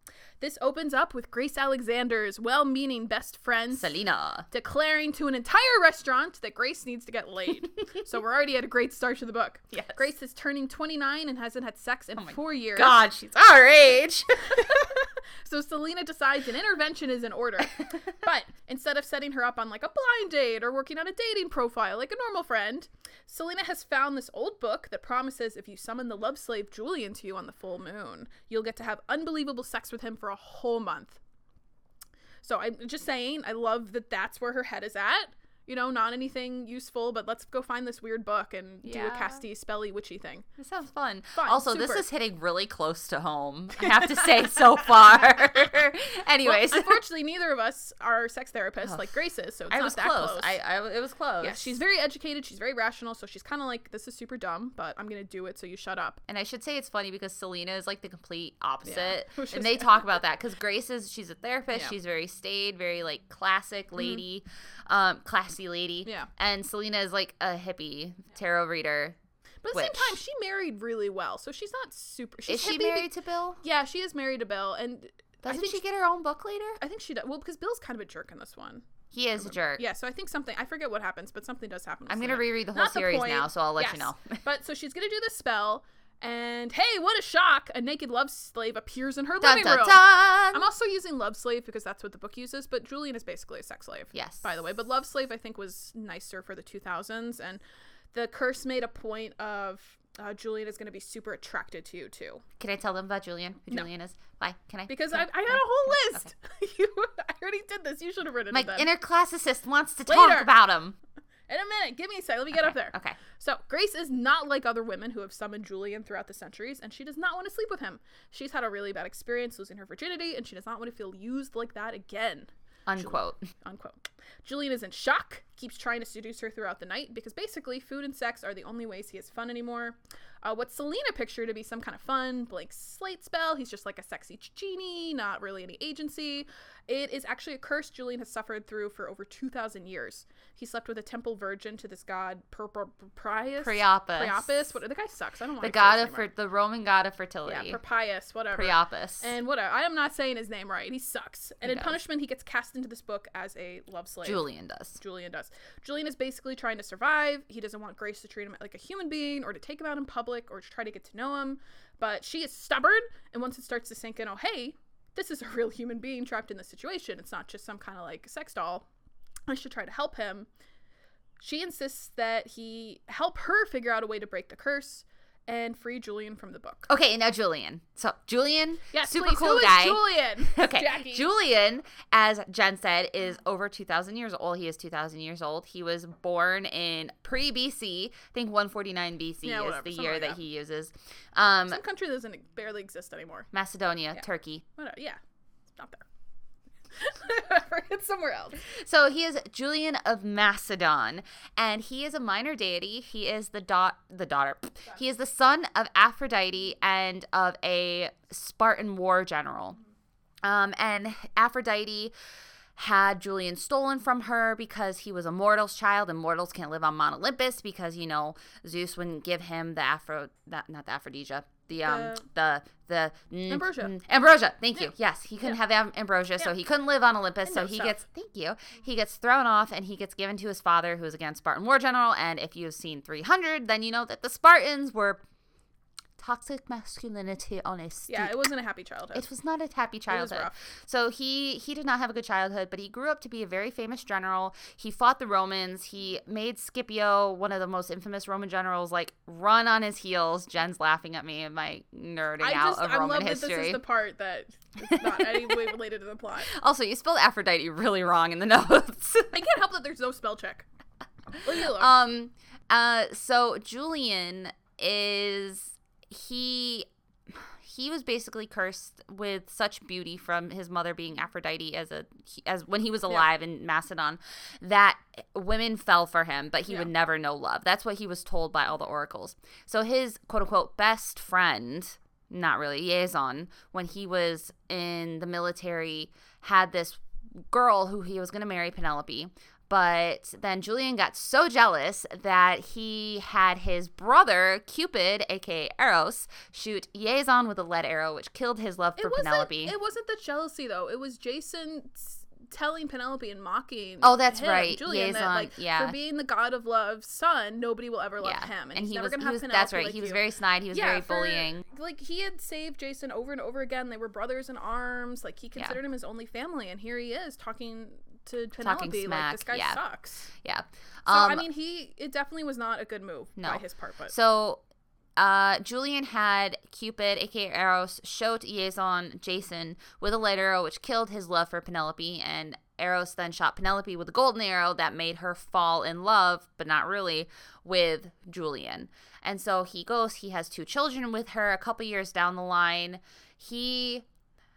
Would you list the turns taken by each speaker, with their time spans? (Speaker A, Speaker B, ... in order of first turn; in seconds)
Speaker A: 0.4-4.0, 4.5-13.0, 14.5-31.2, 32.4-40.5, 41.4-42.0, 43.8-44.9, 46.4-50.6, 51.4-56.2, 58.8-60.1, 64.0-64.2, 66.0-66.3, 69.6-73.1, 73.6-75.8, 76.8-78.9, 79.4-97.6, 98.1-102.4, 104.9-108.9, 110.1-110.5, 111.5-146.3, 147.4-154.4, 155.0-168.9, 169.5-170.5, 171.4-176.9, 178.9-181.3, 189.4-190.4, 191.7-193.5, 194.8-195.2, 195.8-196.1, 196.9-198.6, 221.8-222.3, 223.5-223.9, 227.4-228.0, 238.1-239.3, 240.1-240.6, 252.4-256.5, 259.3-260.6, 261.4-261.9, 299.0-320.3, 321.1-324.1
Speaker B: 3.8-4.5, 9.8-10.0, 12.2-14.9, 17.6-18.1, 38.8-39.4, 40.6-47.0, 48.8-49.1, 49.7-51.8, 56.3-69.2, 69.7-70.2, 72.5-73.6, 75.4-76.8, 79.1-79.8, 82.1-84.4, 89.4-90.7, 94.1-94.5, 102.6-106.3, 108.5-111.0, 112.5-113.2, 122.9-123.5, 143.6-144.7, 145.6-147.8, 148.5-149.3, 151.6-152.0, 154.2-155.0, 176.9-191.8, 193.5-194.6, 198.6-209.8, 210.4-212.1, 212.8-235.2, 236.2-238.4, 239.1-253.8, 254.8-255.7, 256.5-259.4, 261.4-299.8, 304.0-305.9, 308.2-311.6, 318.6-319.8, 320.3-321.4, 323.4-324.6, 325.2-344.1